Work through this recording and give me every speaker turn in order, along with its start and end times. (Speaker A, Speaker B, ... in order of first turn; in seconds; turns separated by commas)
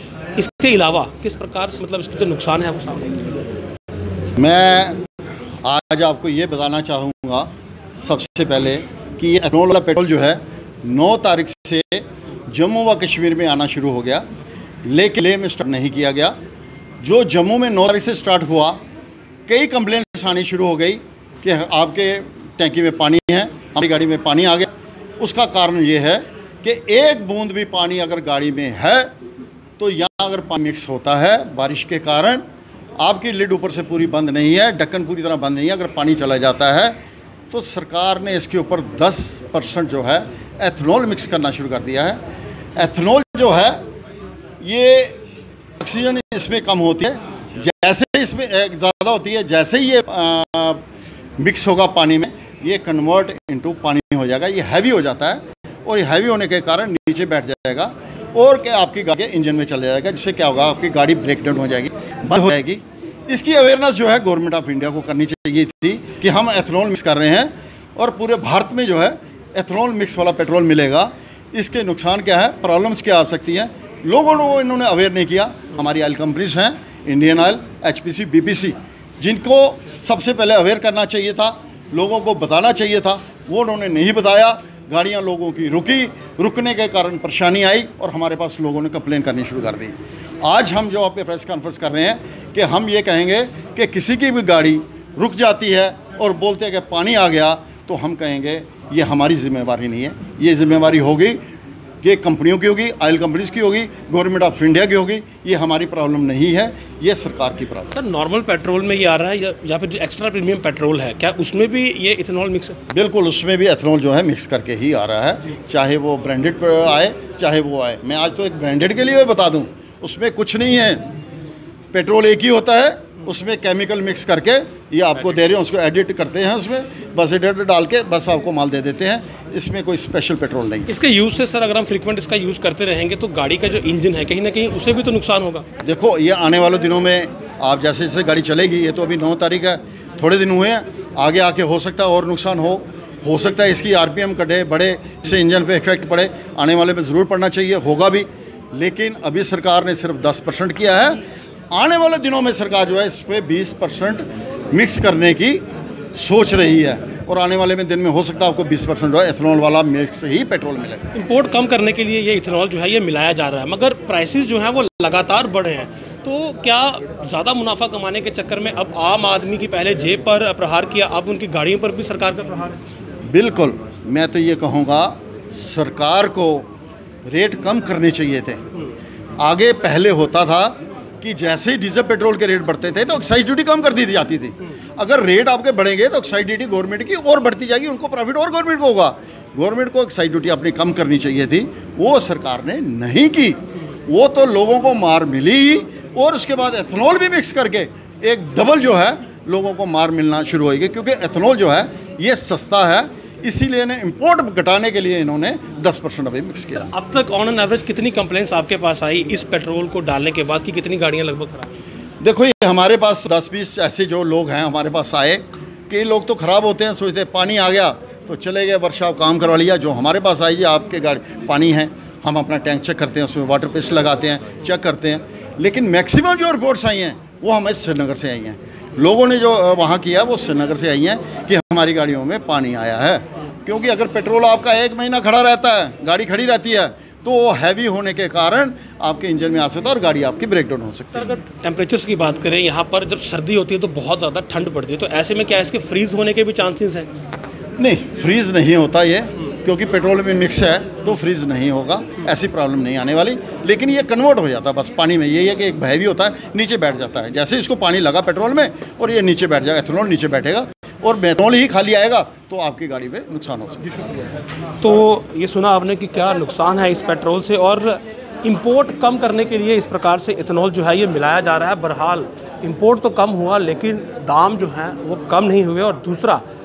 Speaker A: 0.4-3.2, Speaker B: 4.4-5.0, Speaker B: 5.6-14.3, Speaker B: 14.9-16.4, Speaker B: 17.0-18.8, Speaker B: 19.5-29.1, Speaker B: 29.8-32.4, Speaker B: 33.0-37.0, Speaker B: 37.5-42.2, Speaker B: 42.8-43.8, Speaker B: 44.6-45.2, Speaker B: 45.8-50.8, Speaker B: 51.4-101.4, Speaker B: 102.0-107.9, Speaker A: 107.9-112.8, Speaker B: 112.9-121.0, Speaker B: 121.9-130.9, Speaker A: 130.9-135.7, Speaker B: 135.8-151.2, Speaker B: 151.7-155.6, Speaker B: 156.2-161.1, Speaker A: 161.1-172.8, Speaker B: 173.3-176.7, Speaker B: 177.3-178.6, Speaker B: 179.4-206.9, Speaker A: 206.9-211.7, Speaker B: 212.2-241.4, Speaker A: 241.2-247.1, Speaker B: 247.8-263.9, Speaker A: 264.8-276.4